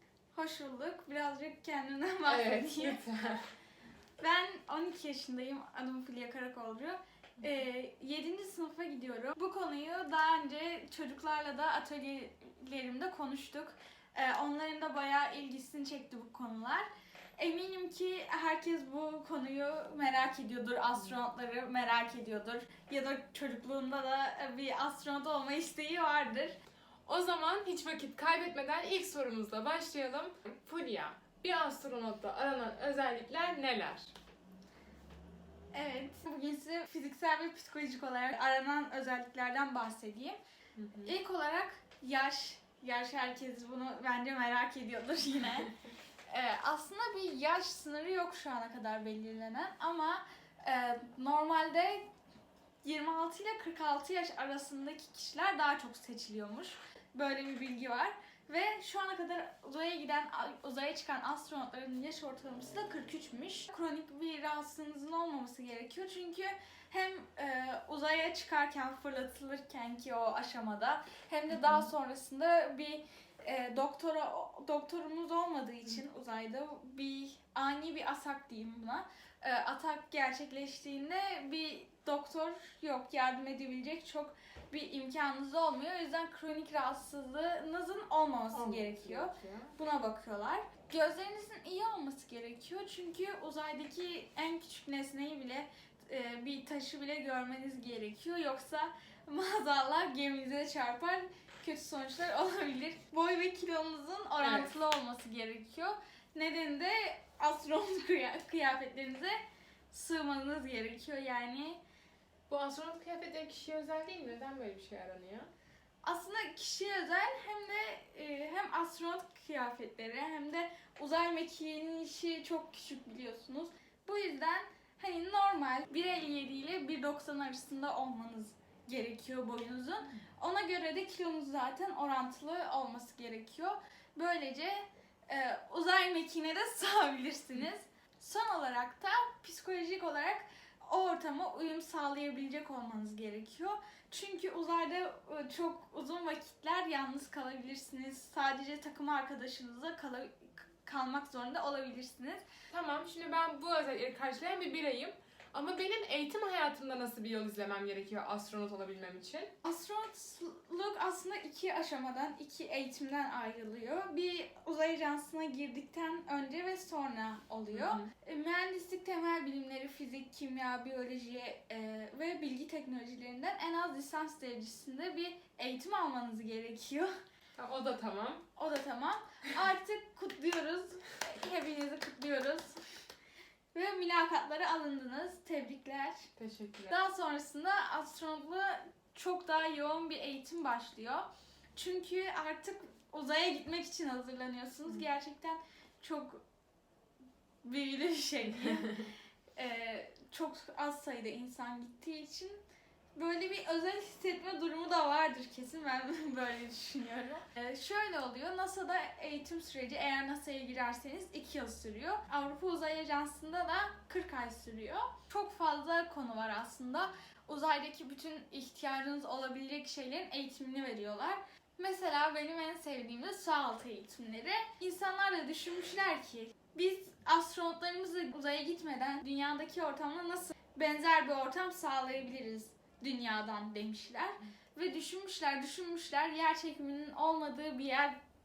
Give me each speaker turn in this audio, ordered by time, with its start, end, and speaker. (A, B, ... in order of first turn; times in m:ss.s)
0:00.3-0:03.0 A
0:02.2-0:03.4 B
0:04.2-0:16.9 A
0:17.4-0:26.6 A
0:27.1-0:34.1 B
0:35.7-0:40.4 A
0:40.8-0:41.1 B
0:41.0-0:45.7 A
0:46.3-0:52.1 A
0:52.8-1:49.4 A
1:28.5-1:29.8 B
1:44.4-1:44.7 B
1:49.9-1:51.8 A
1:52.5-1:55.5 B
1:56.0-2:32.4 A
2:32.7-2:39.5 B
2:39.6-2:57.1 A
2:47.7-2:48.1 B
2:57.6-2:58.4 B
2:58.6-3:02.8 A
3:03.7-3:06.3 A
3:06.4-3:06.9 B
3:06.9-3:16.4 A
3:17.6-3:19.0 A
3:19.6-3:22.6 A
3:23.2-3:58.2 A